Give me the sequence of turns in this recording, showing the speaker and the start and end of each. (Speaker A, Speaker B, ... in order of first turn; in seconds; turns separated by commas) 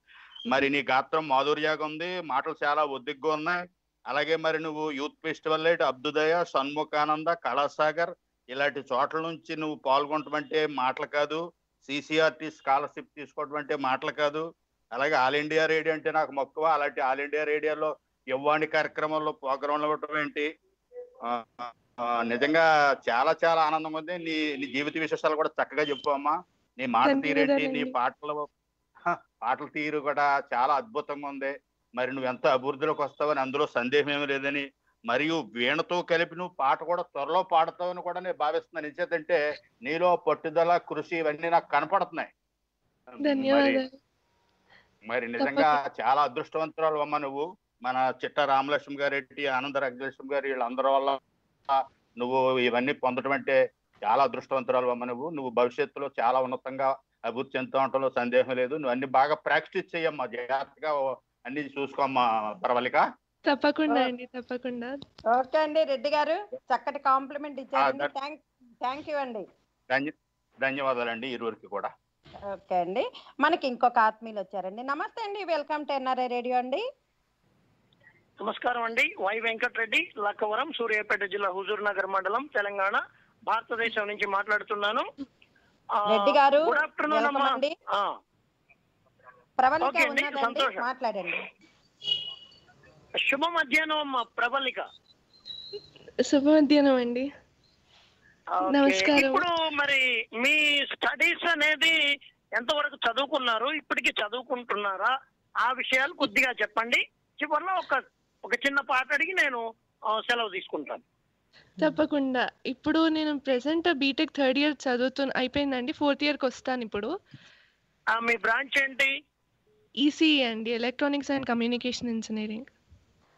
Speaker A: 0.5-20.5, Speaker A: 21.3-28.5, Speaker B: 27.0-27.9, Speaker A: 29.1-42.3, Speaker A: 43.2-43.8, Speaker B: 43.2-43.9, Speaker A: 45.1-51.2, Speaker B: 45.4-45.8, Speaker A: 51.7-63.0, Speaker B: 63.5-65.0, Speaker C: 65.3-69.5, Speaker A: 67.8-68.1, Speaker A: 69.9-71.9, Speaker C: 72.5-76.8, Speaker D: 78.4-85.1, Speaker C: 86.1-87.7, Speaker D: 86.2-88.1, Speaker C: 89.6-91.4, Speaker D: 89.8-90.8, Speaker D: 93.3-94.8, Speaker B: 96.2-97.3, Speaker D: 98.5-101.9, Speaker B: 98.7-99.4, Speaker D: 102.6-105.1, Speaker D: 105.6-109.6, Speaker D: 110.2-111.0, Speaker B: 111.8-117.1, Speaker D: 118.2-119.1, Speaker B: 120.0-122.7